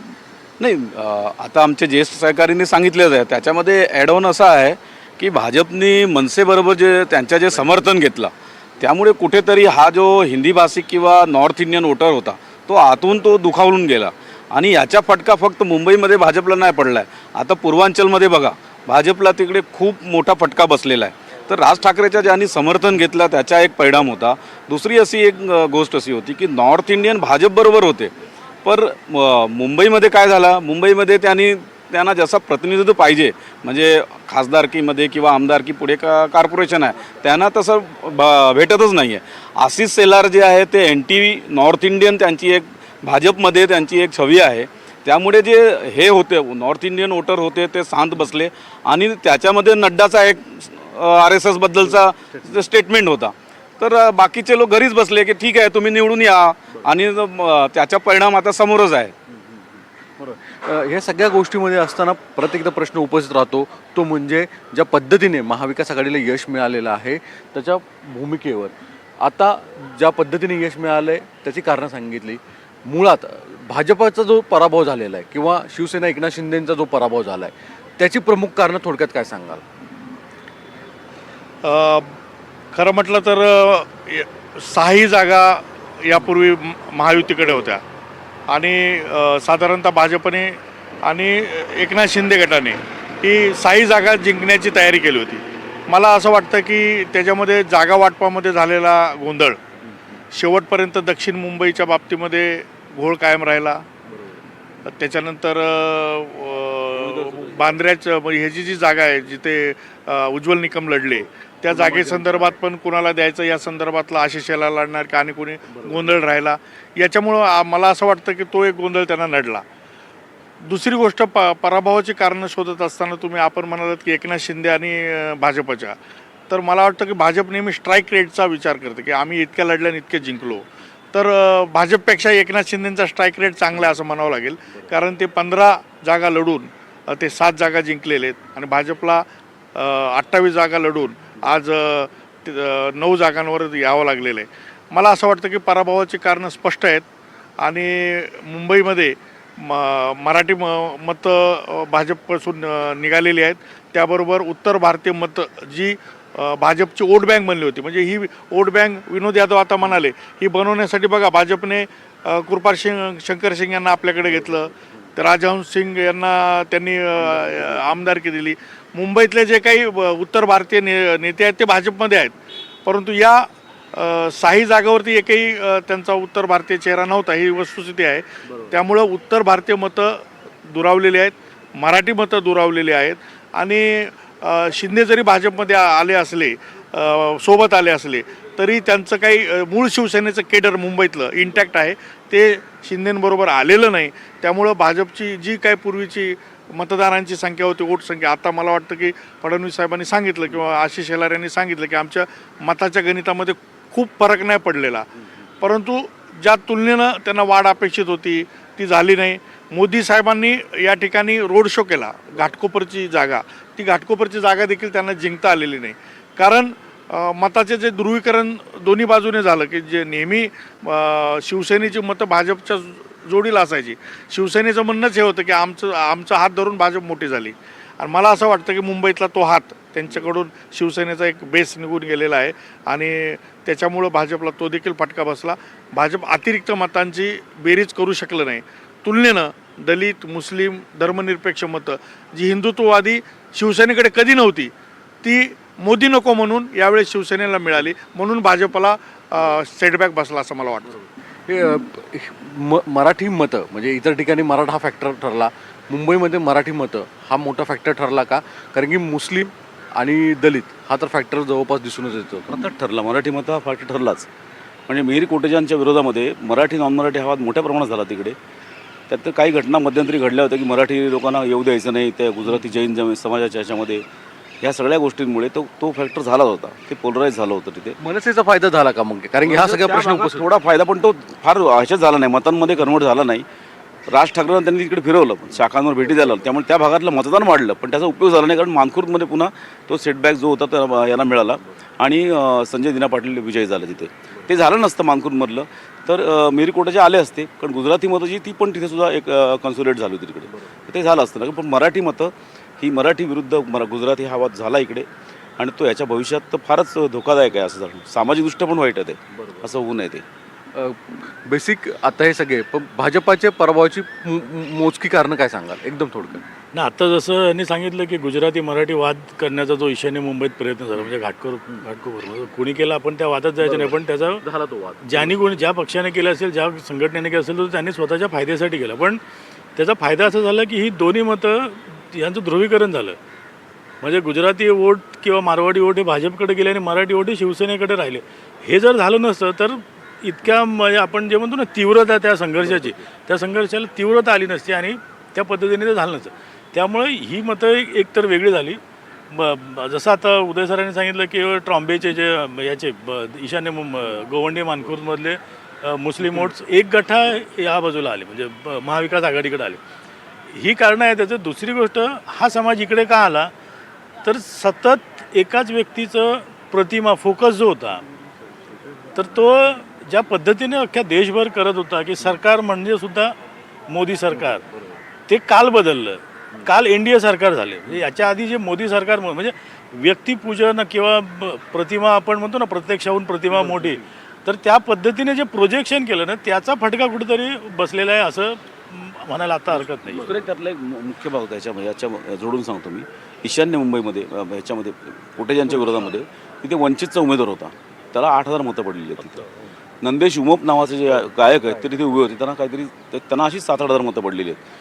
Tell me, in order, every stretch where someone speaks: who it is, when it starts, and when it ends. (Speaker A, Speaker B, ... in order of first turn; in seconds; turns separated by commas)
Speaker A: 0.6-28.1, Speaker A: 28.6-59.1, Speaker B: 59.3-59.6, Speaker B: 60.2-79.6, Speaker C: 81.6-82.1, Speaker C: 82.7-87.8, Speaker C: 88.5-99.6, Speaker C: 100.3-103.8, Speaker C: 104.9-119.6, Speaker B: 111.7-112.5, Speaker B: 115.8-116.1, Speaker C: 120.7-126.0, Speaker C: 126.5-139.2, Speaker C: 139.8-147.1, Speaker C: 147.6-172.3, Speaker C: 172.9-205.1, Speaker C: 205.6-244.7, Speaker C: 245.2-250.9, Speaker B: 251.5-262.5, Speaker D: 262.5-264.3, Speaker D: 264.9-268.4, Speaker D: 269.1-274.0, Speaker D: 274.6-278.0, Speaker B: 278.0-280.4, Speaker D: 279.4-283.4, Speaker D: 284.1-305.1, Speaker D: 305.6-310.2, Speaker B: 310.8-316.4, Speaker E: 316.7-324.4, Speaker B: 323.6-325.4, Speaker E: 325.1-329.2, Speaker E: 329.8-333.2, Speaker E: 334.0-348.8, Speaker E: 349.3-359.8, Speaker E: 360.5-363.5, Speaker E: 364.2-368.0, Speaker E: 369.1-373.3, Speaker E: 373.9-374.6, Speaker B: 374.7-375.0, Speaker E: 375.3-390.3, Speaker B: 383.6-383.9, Speaker D: 389.9-399.4, Speaker B: 395.7-396.1, Speaker D: 400.0-404.6